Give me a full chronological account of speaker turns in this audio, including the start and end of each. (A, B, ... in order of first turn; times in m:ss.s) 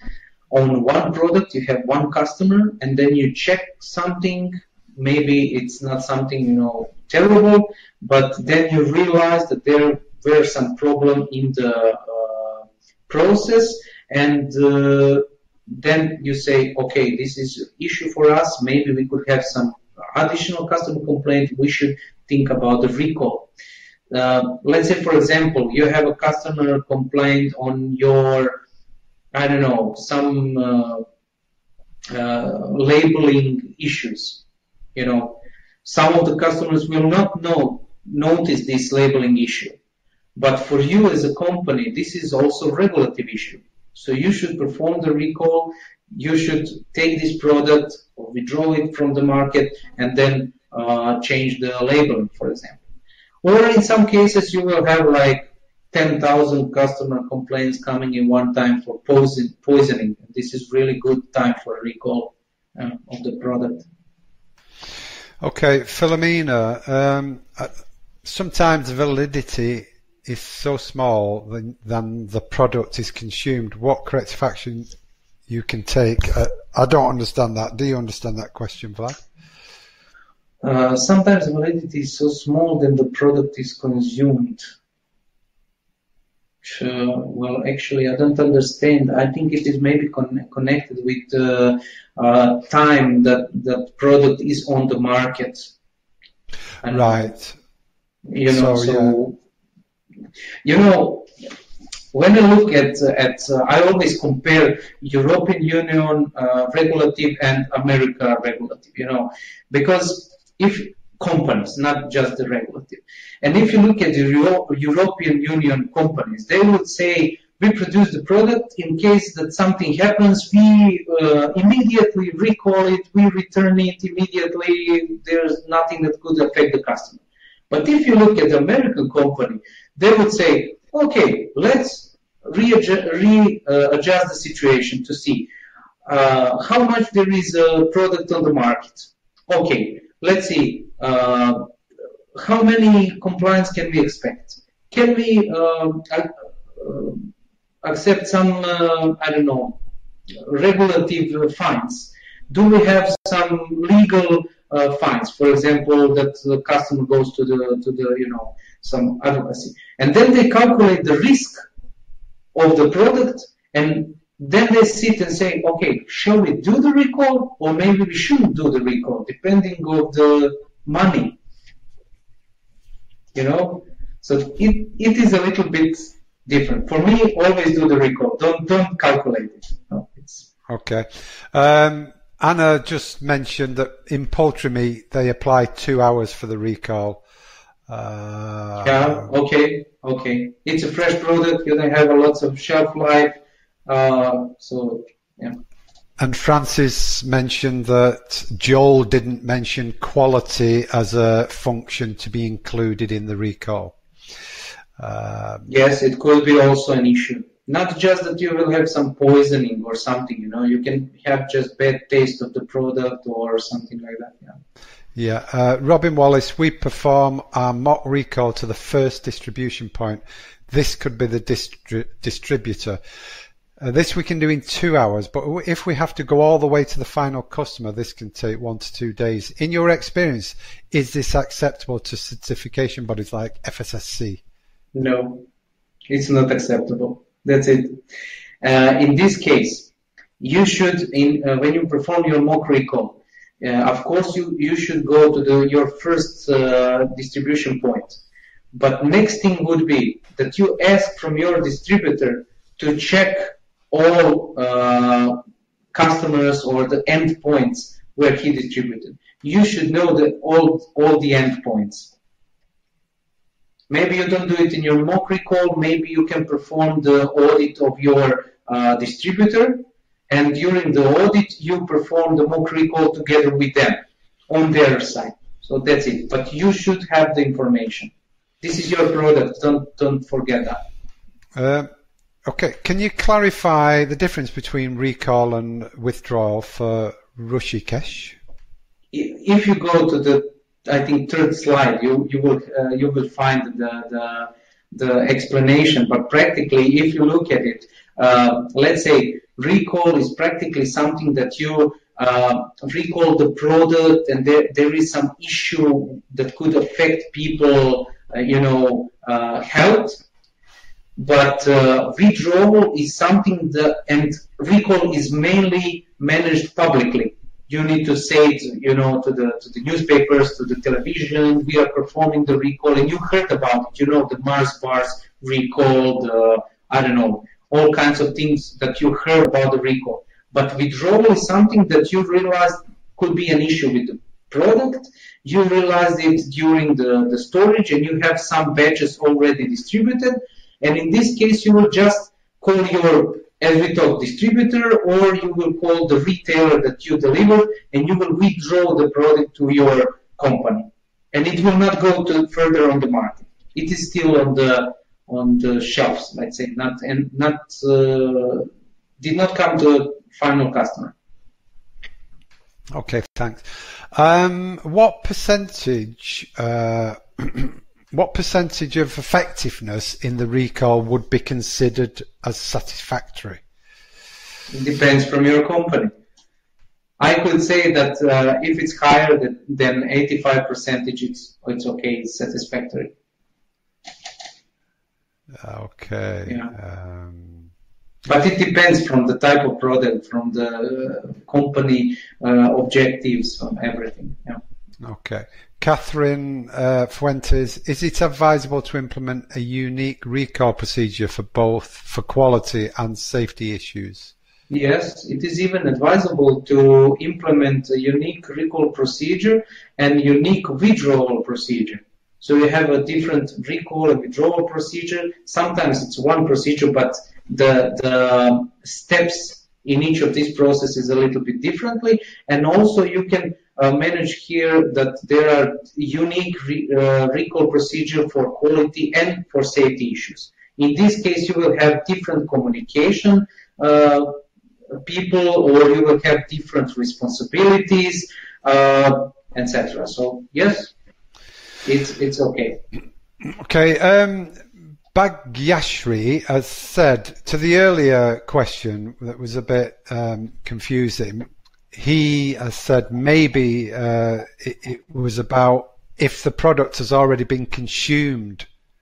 0:00.5-0:23.5 A
0:24.1-0:28.6 A
0:29.3-0:31.0 A
0:32.1-0:34.4 A
0:35.0-0:39.8 A
0:40.4-0:52.8 A
0:53.4-1:03.9 A
1:05.4-1:07.7 B
1:08.2-1:14.9 B
1:15.5-1:19.2 B
1:20.6-1:24.6 A
1:26.6-1:35.7 A
1:36.8-1:37.3 A
1:36.9-1:37.6 B
1:38.3-1:39.4 A
1:38.5-1:39.1 B
1:40.6-1:41.3 A
1:42.1-2:15.5 A
2:16.1-2:21.7 A
2:22.4-2:27.3 A
2:27.8-2:29.8 A
2:30.4-2:41.6 A
2:42.6-2:51.4 A
2:53.3-3:00.5 A
3:00.7-3:07.2 B
3:07.9-3:09.2 B
3:08.8-3:15.6 A
3:16.2-3:24.0 B
3:25.0-3:25.7 B
3:25.7-3:34.6 A
3:35.1-3:43.0 B
3:43.8-3:54.4 B
3:54.9-3:55.4 A
3:56.1-3:58.0 A
3:58.6-4:08.2 A
4:08.7-4:15.4 A
4:15.9-4:22.1 A
4:23.9-4:40.8 A
4:41.6-4:41.9 B
4:42.4-4:48.4 B
4:49.1-5:10.2 A
5:11.2-5:58.7 A
5:59.2-6:01.1 A
6:02.9-6:13.6 B
6:14.7-6:16.1 A
6:17.2-6:23.1 A
6:25.6-6:27.7 B
6:26.5-6:26.7 A
6:28.3-6:34.6 A
6:35.0-6:44.3 B
6:44.7-7:14.4 A
7:15.0-7:20.9 A
7:21.8-7:22.8 A
7:23.5-7:38.7 B